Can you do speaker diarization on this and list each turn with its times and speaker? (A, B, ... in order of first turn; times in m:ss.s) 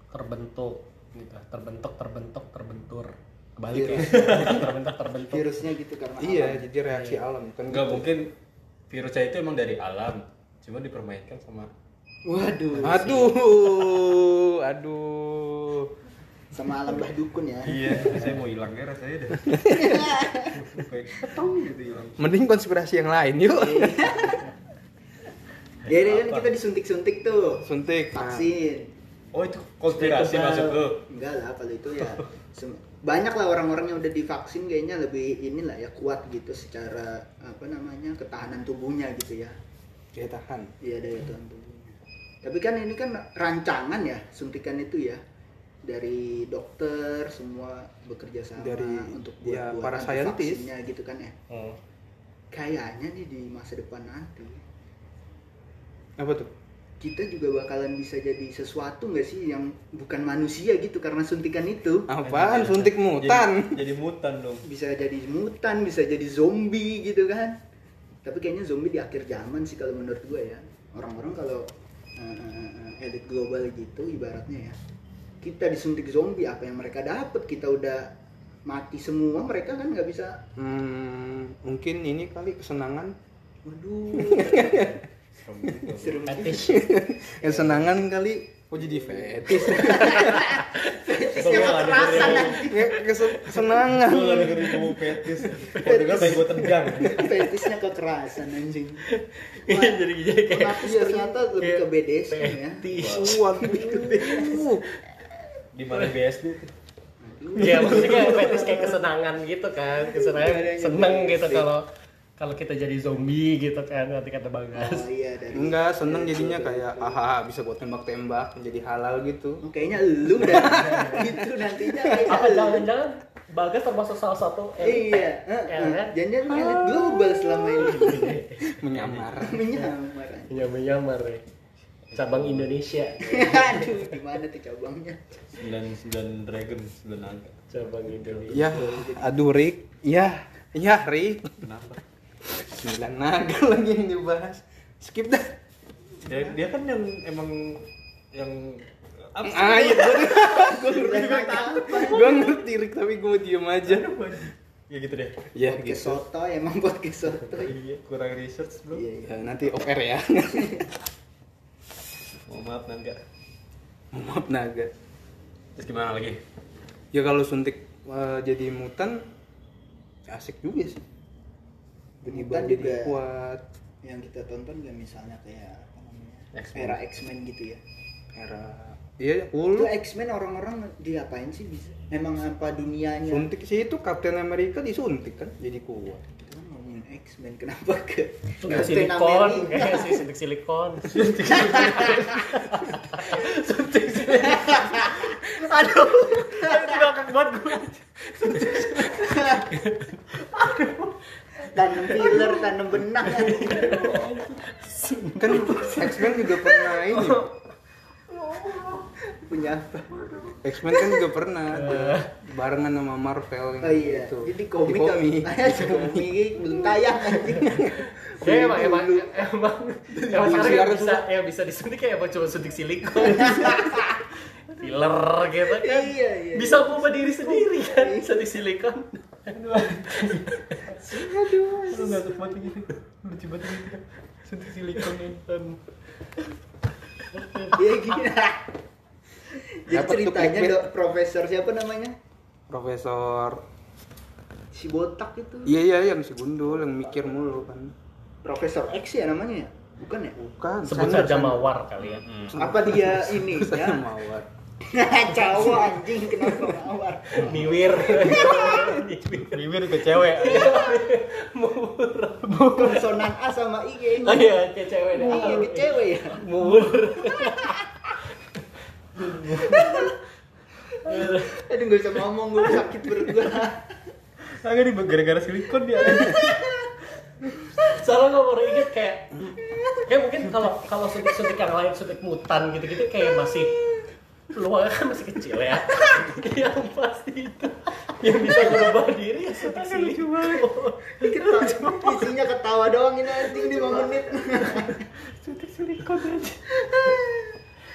0:00.1-0:05.5 A
0:03.7-0:04.6 B
0:04.0-0:04.7 C
0:05.2-0:06.6 B
0:06.2-0:08.1 D
0:06.9-0:07.2 A
0:07.7-0:08.3 C
0:08.9-0:11.7 C
0:12.3-0:13.7 B
0:12.8-0:15.9 D
0:12.8-0:13.3 A
0:16.5-0:18.0 B
0:17.6-0:19.8 C
0:18.0-0:18.3 D
0:19.5-0:20.1 D
0:19.6-0:21.5 B
0:20.6-0:22.2 C
0:22.2-0:24.4 D
0:23.6-0:24.5 B
0:25.8-0:28.9 B
0:25.9-0:26.5 C
0:27.6-0:28.5 D
0:29.3-0:31.0 C
0:30.0-0:30.8 D
0:31.0-0:39.6 B
0:40.1-0:40.7 D
0:40.8-0:45.2 B
0:45.8-0:51.4 B
0:48.6-0:50.6 D
0:51.5-0:51.8 A
0:52.5-0:54.6 B
0:56.2-0:56.5 D
0:57.0-1:02.1 B
1:02.1-1:03.8 D
1:02.2-1:04.6 C
1:02.3-1:02.9 A
1:04.6-1:07.6 B
1:08.2-1:14.8 B
1:15.4-1:18.2 B
1:18.7-1:20.4 B
1:20.6-1:23.2 D
1:23.6-1:24.9 B
1:24.2-1:25.0 D
1:24.6-1:24.9 C
1:25.4-1:26.2 C
1:25.9-1:26.8 B
1:26.3-1:26.9 A
1:26.6-1:30.4 D
1:27.4-1:27.9 B
1:28.8-1:33.1 B
1:29.8-1:30.8 A
1:31.3-1:32.7 C
1:32.1-1:32.5 A
1:32.6-1:34.7 D
1:33.5-1:37.3 C
1:34.3-1:35.0 A
1:35.5-1:37.6 A
1:35.8-1:39.0 B
1:39.1-1:44.9 A
1:39.6-1:42.9 B
1:40.8-1:41.3 D
1:42.9-1:43.4 C
1:43.0-1:44.8 D
1:43.5-1:44.6 B
1:45.7-1:46.7 C
1:47.2-1:48.3 B
1:47.6-1:55.1 A
1:47.6-1:48.9 C
1:48.4-1:48.8 D
1:50.0-1:51.7 B
1:54.7-1:57.2 B
1:55.5-1:59.6 D
1:59.6-2:02.9 B
2:00.4-2:02.2 D
2:00.5-2:01.3 A
2:02.3-2:06.1 A
2:04.8-2:08.4 B
2:06.5-2:09.7 D
2:07.8-2:08.6 A
2:08.9-2:09.4 C
2:09.4-2:10.6 B
2:10.5-2:11.4 A
2:12.1-2:12.7 C
2:12.1-2:14.2 A
2:13.2-2:15.2 B
2:15.6-2:17.7 C
2:17.7-2:18.8 A
2:18.2-2:18.5 C
2:18.5-2:21.7 D
2:18.5-2:19.4 B
2:21.6-2:22.0 C
2:22.5-2:25.6 D
2:26.2-2:32.5 C
2:29.4-2:34.1 D
2:30.3-2:32.6 B
2:33.8-2:35.4 C
2:35.6-2:36.2 D
2:35.6-2:37.8 B
2:37.6-2:39.0 C
2:38.9-2:39.4 B
2:39.2-2:40.9 D
2:40.5-2:40.8 B
2:42.5-2:43.2 C
2:44.1-2:44.9 D
2:45.8-2:46.4 C
2:47.1-2:49.3 D
2:50.3-2:51.0 D
2:52.2-2:53.6 D
2:52.2-2:53.2 B
2:54.0-2:57.8 B
2:56.5-2:57.0 C
2:58.3-2:59.9 D
2:59.7-3:03.5 B
3:03.3-3:06.2 D
3:06.4-3:10.2 B
3:08.6-3:27.6 A
3:11.1-3:12.5 C
3:11.5-3:12.2 B
3:13.3-3:14.7 C
3:14.5-3:17.1 B
3:19.0-3:19.7 B
3:21.6-3:24.2 B
3:24.0-3:24.4 C
3:25.4-3:27.5 D
3:28.3-3:29.1 A
3:29.3-3:30.5 B
3:30.3-3:32.3 A
3:30.6-3:36.6 D
3:33.8-3:39.5 B
3:37.5-3:38.7 D
3:38.1-3:44.2 A
3:40.1-3:40.9 B
3:40.4-3:41.2 D
3:43.3-3:44.2 B
3:44.7-3:51.0 A
3:45.7-3:48.4 B
3:49.5-3:50.6 C
3:51.0-3:52.3 B
3:51.9-3:55.4 C
3:55.0-3:55.8 A
3:57.3-3:58.2 A
3:57.7-3:58.7 B
3:59.5-4:02.2 B
3:59.9-4:00.9 D
4:02.7-4:03.6 D
4:04.7-4:05.8 B
4:05.7-4:07.9 D
4:08.4-4:10.5 B
4:10.5-4:11.7 D
4:10.8-4:12.3 A
4:12.0-4:12.6 C
4:12.5-4:14.5 D
4:12.6-4:14.0 B
4:14.8-4:18.9 B
4:16.4-4:16.7 D
4:17.3-4:22.9 A
4:18.1-4:18.9 D
4:19.4-4:21.0 C
4:22.4-4:23.1 C
4:22.7-4:24.6 B
4:24.2-4:28.0 A
4:25.2-4:26.5 B
4:27.3-4:27.8 B
4:29.2-4:30.1 A
4:29.2-4:29.9 C
4:29.7-4:30.1 B
4:30.9-4:34.0 B
4:31.1-4:31.7 A
4:34.5-4:36.6 C
4:36.1-4:37.0 B
4:37.8-4:44.0 A
4:39.7-4:40.1 B
4:44.5-4:51.9 A
4:49.7-4:50.7 C
4:51.2-4:55.1 B
4:53.6-4:54.1 A
4:55.4-4:56.6 C
4:56.7-4:57.6 B